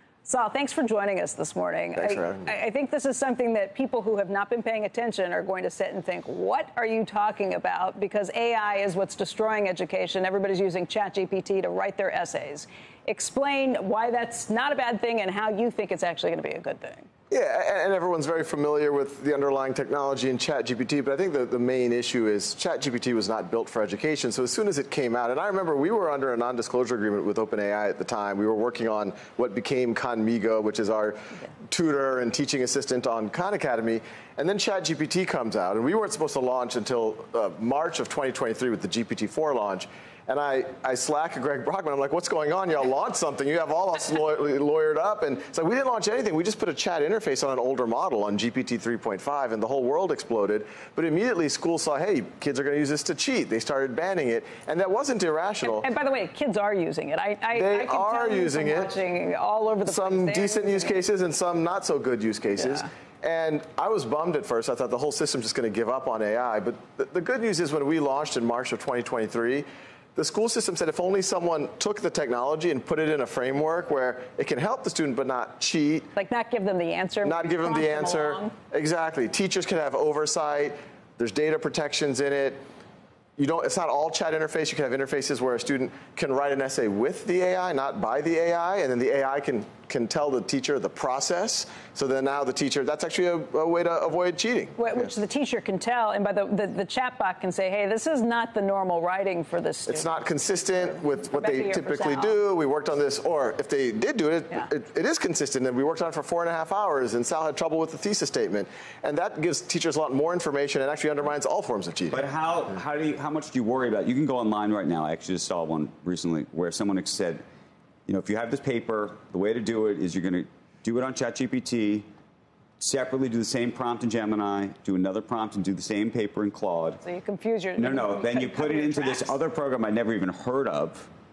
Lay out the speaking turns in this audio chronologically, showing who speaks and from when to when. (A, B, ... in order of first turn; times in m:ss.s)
0:00.2-0:17.1 A
0:02.0-0:02.6 B
0:17.3-0:55.9 B
0:55.6-1:01.0 A
0:57.6-0:58.9 B
0:59.9-1:16.1 B
1:02.6-1:02.8 A
1:16.2-1:18.5 A
1:17.2-1:22.6 B
1:23.4-1:34.8 B
1:34.8-1:40.1 A
1:39.9-1:52.2 B
1:41.0-1:42.4 A
1:52.1-1:57.4 C
1:58.1-2:02.1 C
2:02.8-2:07.0 C
2:07.0-2:09.3 A
2:07.8-2:11.1 C